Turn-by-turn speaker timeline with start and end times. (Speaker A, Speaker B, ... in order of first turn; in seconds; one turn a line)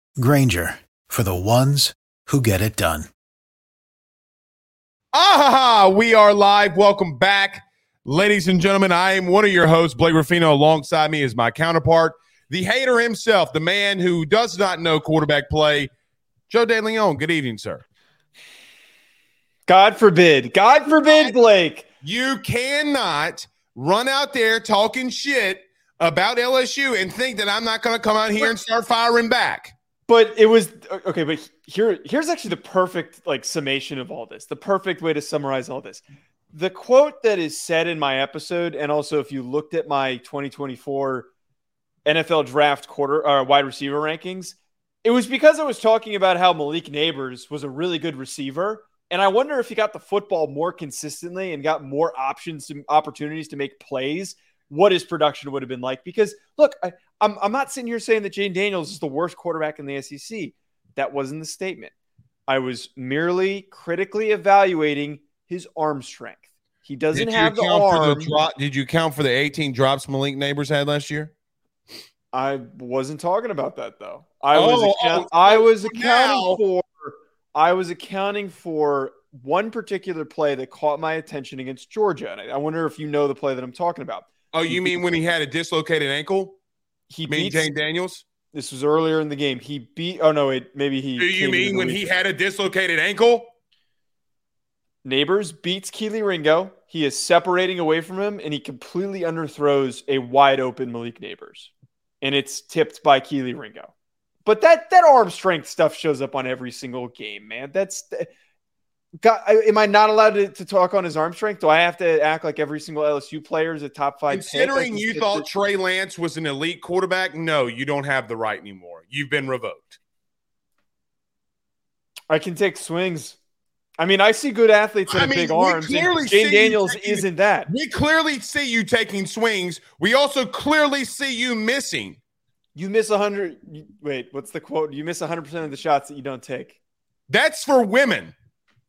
Speaker A: 0.2-3.1
Speaker B: 5.1-15.9
Speaker B: 16.5-17.8
Speaker C: 19.7-21.9
Speaker B: 20.8-21.3
Speaker B: 22.0-29.7
Speaker C: 30.1-36.0
Speaker C: 36.5-41.3
Speaker C: 42.0-61.9
Speaker C: 62.5-68.4
Speaker B: 67.1-71.3
Speaker C: 72.3-84.9
Speaker B: 74.5-76.6
Speaker B: 84.5-86.6
Speaker C: 87.1-87.7
Speaker B: 87.3-88.2
Speaker C: 88.5-92.0
Speaker B: 91.2-93.5
Speaker C: 95.0-101.7
Speaker C: 102.2-103.9
Speaker C: 104.5-108.3
Speaker C: 109.2-115.5
Speaker B: 114.3-120.0
Speaker C: 122.3-123.4
Speaker C: 124.0-127.7
Speaker B: 125.1-132.2
Speaker C: 132.7-136.8
Speaker B: 137.3-138.3